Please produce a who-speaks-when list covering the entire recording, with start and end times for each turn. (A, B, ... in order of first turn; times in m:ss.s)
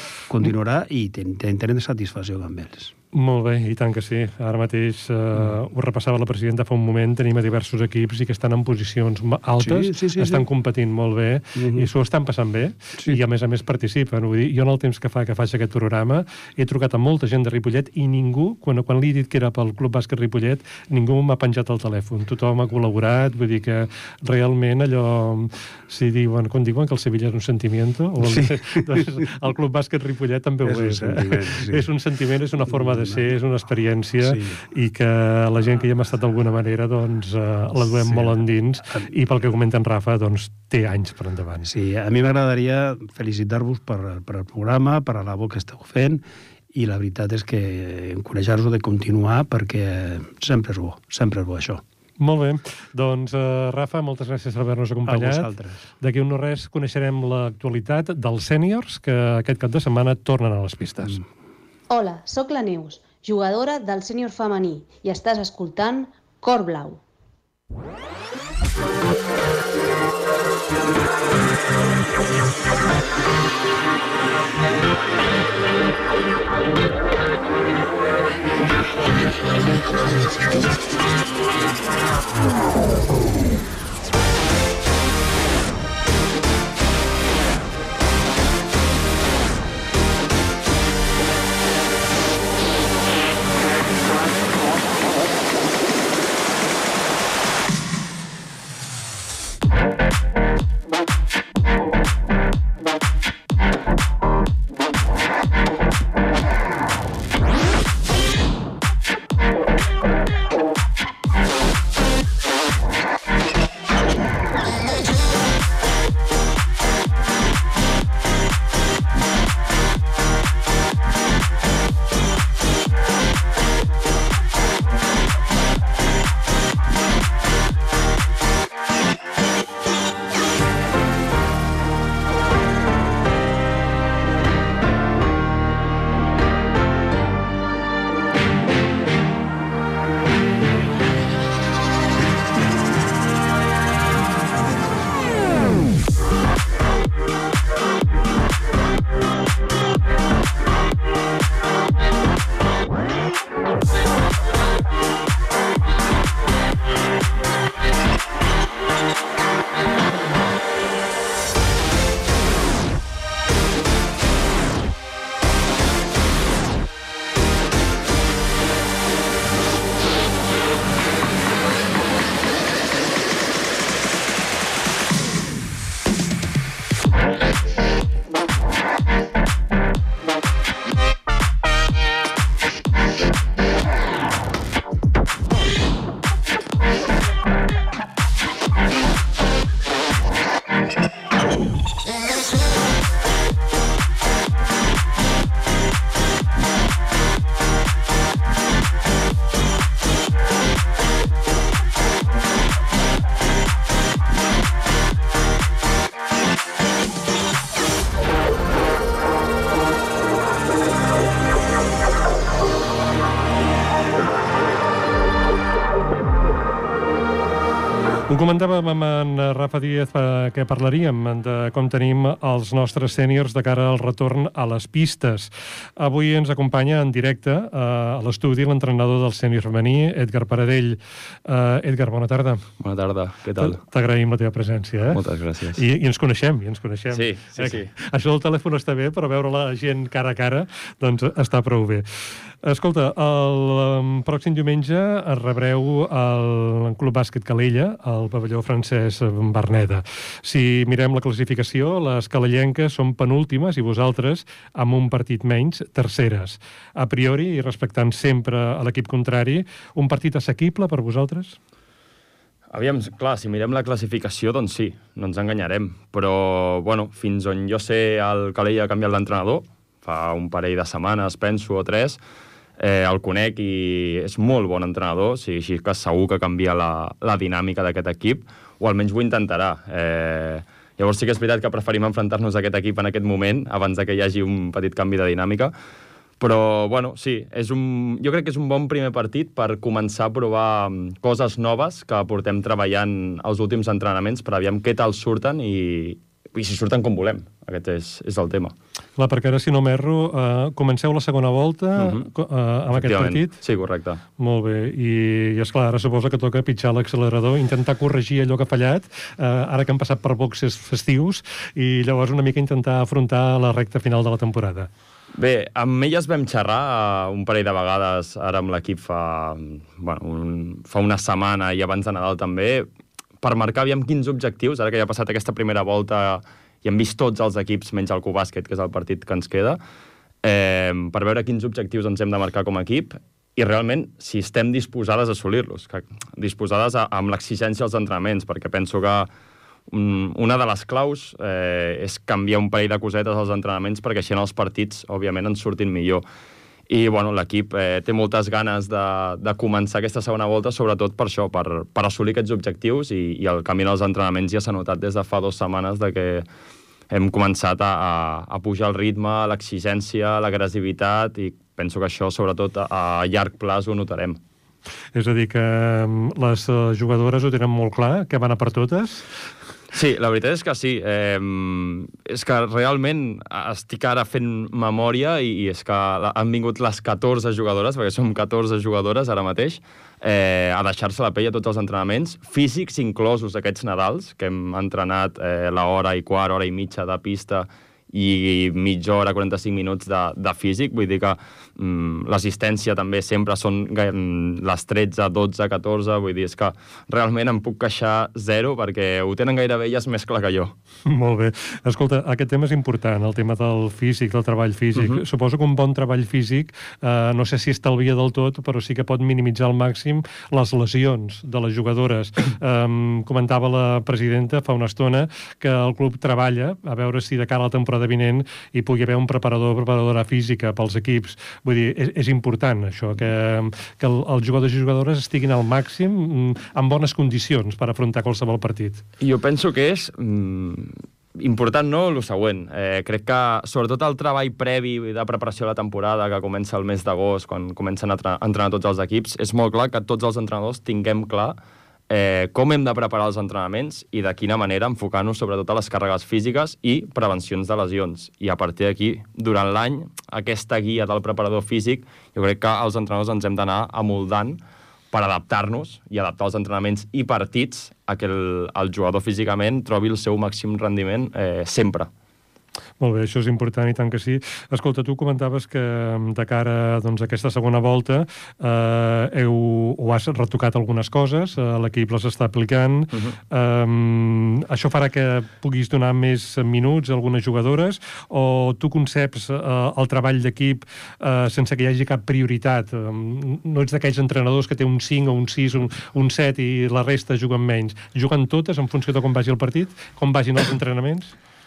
0:00.3-0:02.9 A
0:03.1-0:41.7 B
0:09.6-0:10.4 A
0:11.6-0:11.9 A
0:28.2-0:29.2 A
0:30.6-0:31.9 A
0:32.7-0:33.2 A
0:34.2-0:34.6 A
0:38.0-0:38.4 A
0:41.6-0:51.8 A
0:52.2-0:55.5 B
0:55.0-0:55.8 A
0:56.0-1:01.2 B
1:01.9-1:07.0 C
3:38.3-3:52.6 B
3:52.8-3:53.8 D
3:53.6-3:55.2 B
3:55.1-3:55.8 D
3:55.7-4:02.0 B
3:57.1-3:57.9 D
4:02.6-4:21.6 B
4:22.7-4:32.2 D
4:32.8-4:45.7 D
4:46.4-4:58.7 D
4:59.2-5:03.6 B
5:02.0-5:02.3 D
5:02.9-5:04.2 D
5:04.4-5:14.9 B
5:15.4-5:22.9 D
5:23.4-5:29.8 D
5:30.4-5:39.3 D
5:39.9-5:46.2 D
5:46.9-5:56.4 D
5:57.1-6:04.4 D
6:05.1-6:09.2 B
6:09.9-6:40.7 D
6:41.0-7:09.0 B
6:44.9-6:45.2 D
7:09.2-7:21.6 D
7:22.1-7:34.6 D
7:35.1-7:42.1 D
7:43.0-8:11.3 B